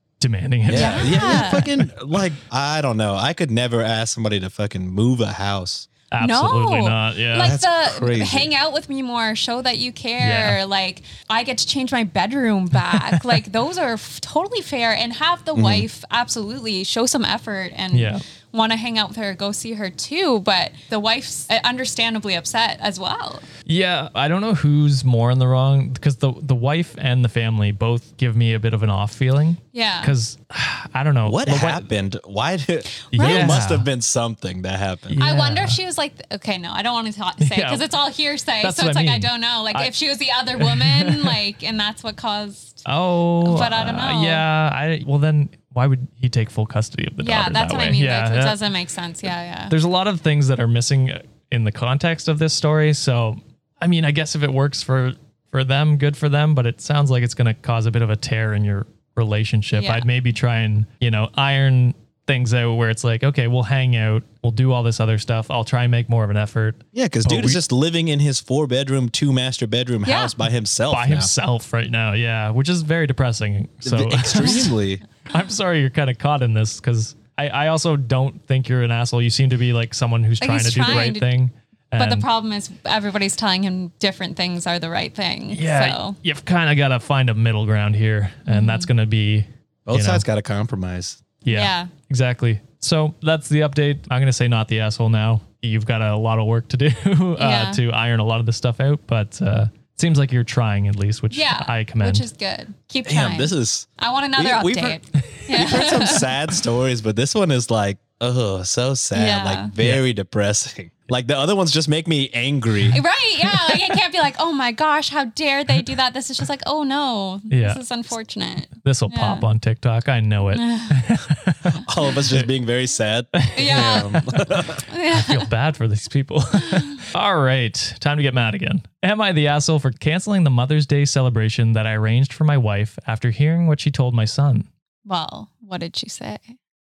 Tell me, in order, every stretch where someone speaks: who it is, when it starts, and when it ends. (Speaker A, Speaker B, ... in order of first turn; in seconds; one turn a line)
Speaker A: 0.2-1.7
Speaker B: 0.7-5.9
Speaker C: 0.7-1.7
Speaker A: 6.1-7.6
Speaker C: 6.2-23.4
Speaker B: 7.3-8.5
Speaker A: 10.2-10.6
Speaker B: 15.5-15.8
Speaker A: 17.9-18.2
Speaker A: 23.6-31.8
Speaker C: 29.7-30.1
Speaker B: 31.2-35.2
Speaker C: 33.1-33.6
Speaker A: 33.1-33.9
Speaker A: 35.1-35.8
Speaker C: 35.2-42.9
Speaker A: 37.4-37.9
Speaker A: 38.6-39.9
Speaker A: 40.5-41.4
Speaker A: 42.9-48.6
Speaker C: 43.4-44.4
Speaker C: 47.2-49.7
Speaker A: 49.7-67.6
Speaker C: 59.7-60.0
Speaker B: 66.9-71.3
Speaker C: 70.0-70.3
Speaker A: 70.9-74.7
Speaker B: 73.8-75.0
Speaker A: 75.3-82.3
Speaker C: 80.4-81.3
Speaker C: 82.0-86.2
Speaker A: 85.5-90.2
Speaker C: 88.5-88.9
Speaker B: 89.9-91.2
Speaker A: 91.4-102.3
Speaker C: 91.5-91.9
Speaker C: 97.4-97.8
Speaker C: 101.3-106.2
Speaker B: 103.0-105.0
Speaker B: 105.5-113.0
Speaker C: 109.1-109.7
Speaker C: 112.9-119.5
Speaker A: 117.5-117.8
Speaker A: 118.8-122.5
Speaker C: 120.5-121.0
Speaker B: 121.7-124.8
Speaker A: 123.3-134.7
Speaker C: 123.5-124.2
Speaker C: 124.8-125.5
Speaker C: 135.1-136.6